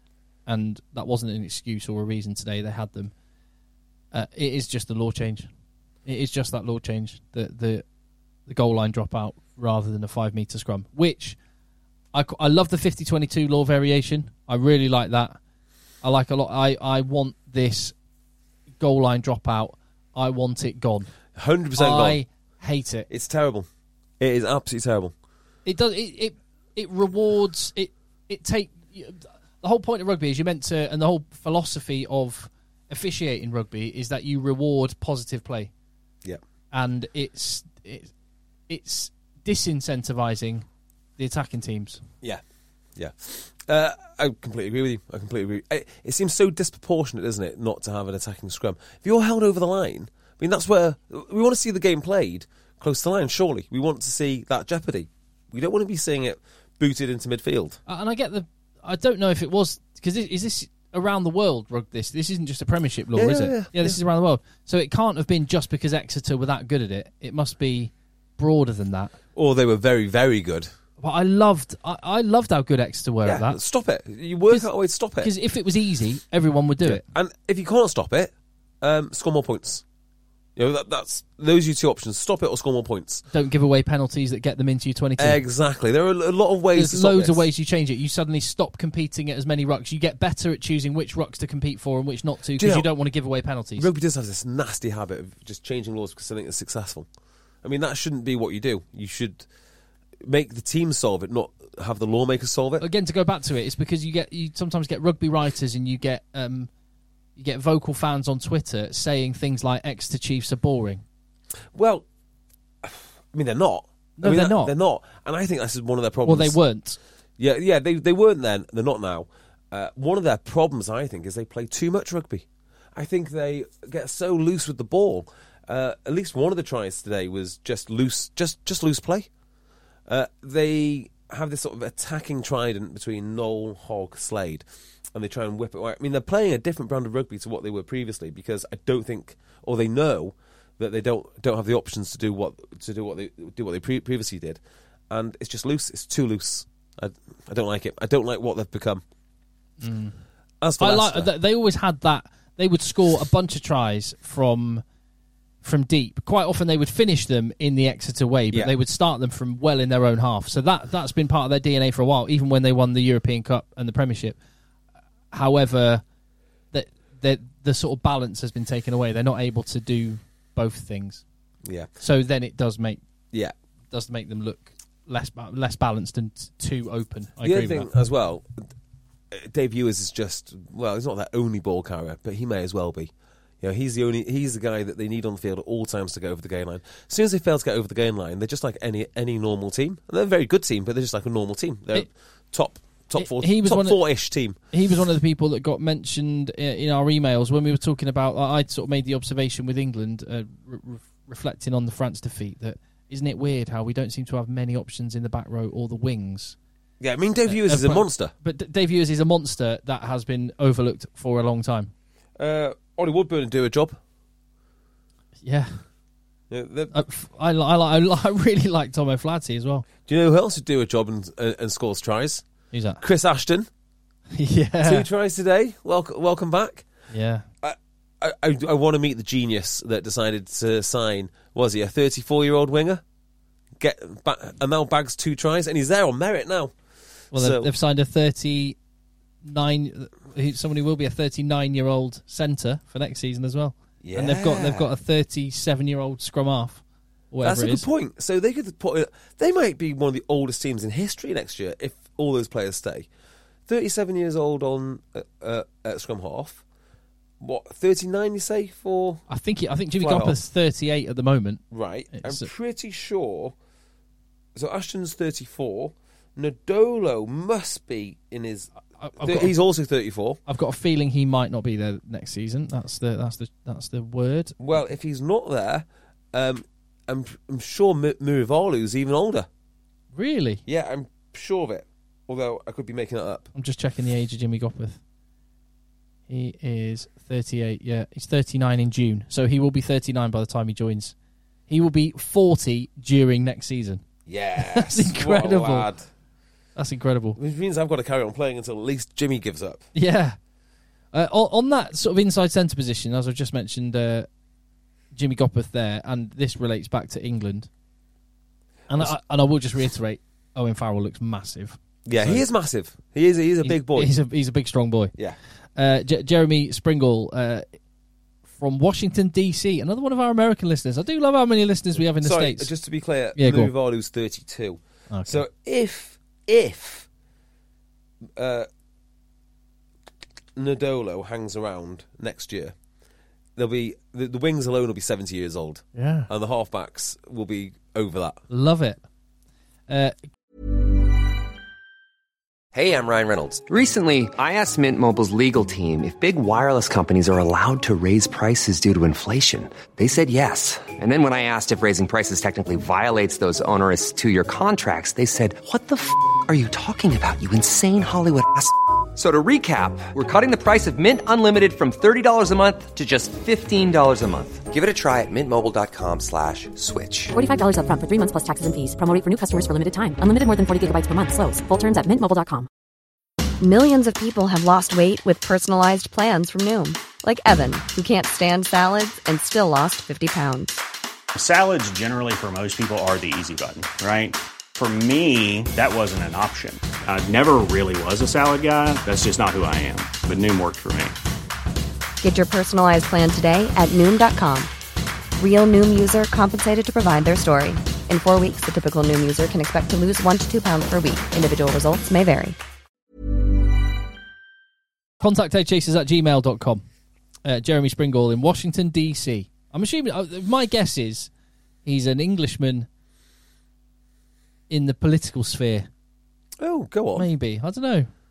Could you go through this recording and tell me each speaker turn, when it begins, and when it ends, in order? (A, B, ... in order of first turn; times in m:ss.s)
0:00.4-0:03.1 A
0:04.1-0:05.5 A
0:06.0-0:07.8 A
0:08.5-0:11.4 A
0:12.1-0:15.4 A
0:16.0-0:17.9 A
0:18.8-0:21.1 A
0:21.4-0:22.2 B
0:21.8-0:23.1 A
0:23.1-0:23.6 B
0:24.2-0:25.1 B
0:25.6-0:35.7 A
0:36.7-0:38.1 A
0:38.7-0:40.6 A
0:41.2-0:42.0 A
0:43.0-0:57.8 B
0:57.9-1:09.1 A
1:03.2-1:04.0 B
1:09.3-1:10.7 B
1:11.0-1:13.6 A
1:13.2-1:15.3 B
1:15.2-1:17.0 A
1:16.8-1:18.3 B
1:18.8-1:19.8 B
1:20.6-1:23.2 B
1:23.3-1:25.4 A
1:25.2-1:27.4 B
1:26.7-1:33.9 A
1:32.6-1:32.9 B
1:33.8-1:37.1 B
1:37.6-1:39.4 B
1:40.2-1:42.8 B
1:42.8-1:46.7 A
1:47.4-1:51.0 A
1:51.7-1:52.0 B
1:52.8-1:56.6 B
1:54.2-1:54.7 A
1:56.2-1:57.0 A
1:57.4-2:02.4 B
2:03.0-2:09.3 B
2:10.1-2:29.0 B
2:29.8-2:30.2 A
2:30.6-2:31.3 B
2:30.8-2:34.8 A
2:35.6-2:44.4 A
2:45.3-2:46.0 A
2:46.7-2:51.2 A
2:51.6-2:51.9 B
2:52.0-2:53.0 A
2:53.9-2:57.9 A
2:57.4-2:58.4 B
2:59.3-3:03.1 B
3:03.6-3:14.6 B
3:13.2-3:14.0 A
3:14.7-3:26.6 A
3:27.0-3:28.3 B
3:27.5-3:31.9 A
3:32.4-3:34.0 B
3:35.4-3:35.8 A
3:36.5-3:36.9 B
3:36.9-3:39.9 A
3:40.0-3:42.4 B
3:42.7-3:43.0 A
3:43.0-3:43.7 B
3:44.3-3:45.0 A
3:44.8-3:46.8 B
3:47.1-3:47.4 A
3:47.6-3:53.0 B
3:53.8-3:56.7 B
3:57.3-3:57.7 B
3:57.3-3:58.8 A
3:59.4-4:07.8 A
4:04.0-4:04.9 B
4:07.4-4:13.1 B
4:13.7-4:16.6 B
4:17.4-4:19.2 B
4:19.3-4:21.6 A
4:20.0-4:20.4 B
4:21.7-4:23.5 B
4:22.1-4:22.5 A
4:24.6-4:30.4 B
4:29.0-4:29.5 A
4:30.5-4:34.5 A
4:34.6-4:39.5 B
4:40.1-4:40.6 A
4:40.7-4:43.5 B
4:43.5-4:45.0 A
4:46.3-4:51.1 A
4:51.7-4:54.0 A
4:54.3-4:56.0 B
4:54.6-4:55.9 A
4:56.8-4:57.4 A
4:57.4-4:59.8 B
4:59.9-5:00.4 A
5:01.1-5:04.3 A
5:05.1-5:07.7 A
5:08.9-5:12.4 A
5:12.0-5:14.1 B
5:13.6-5:15.1 A
5:15.8-5:17.6 A
5:18.5-5:22.7 A
5:22.2-5:27.1 B
5:23.4-5:23.7 A
5:25.1-5:25.4 A
5:28.4-5:28.7 B
5:30.6-5:32.7 B
5:33.6-5:38.4 B
5:35.9-5:36.3 A
5:38.5-5:39.0 A
5:39.9-5:40.1 A
5:42.7-6:07.3 C
6:07.3-6:12.7 D
6:13.6-6:20.8 E
6:21.3-6:31.2 F
6:32.2-6:34.7 E
6:35.4-6:42.6 E
6:45.2-6:46.8 A
6:47.4-6:51.3 A
6:51.8-6:52.9 A
6:54.7-6:55.9 A
6:56.6-6:57.3 B
6:57.1-6:58.1 A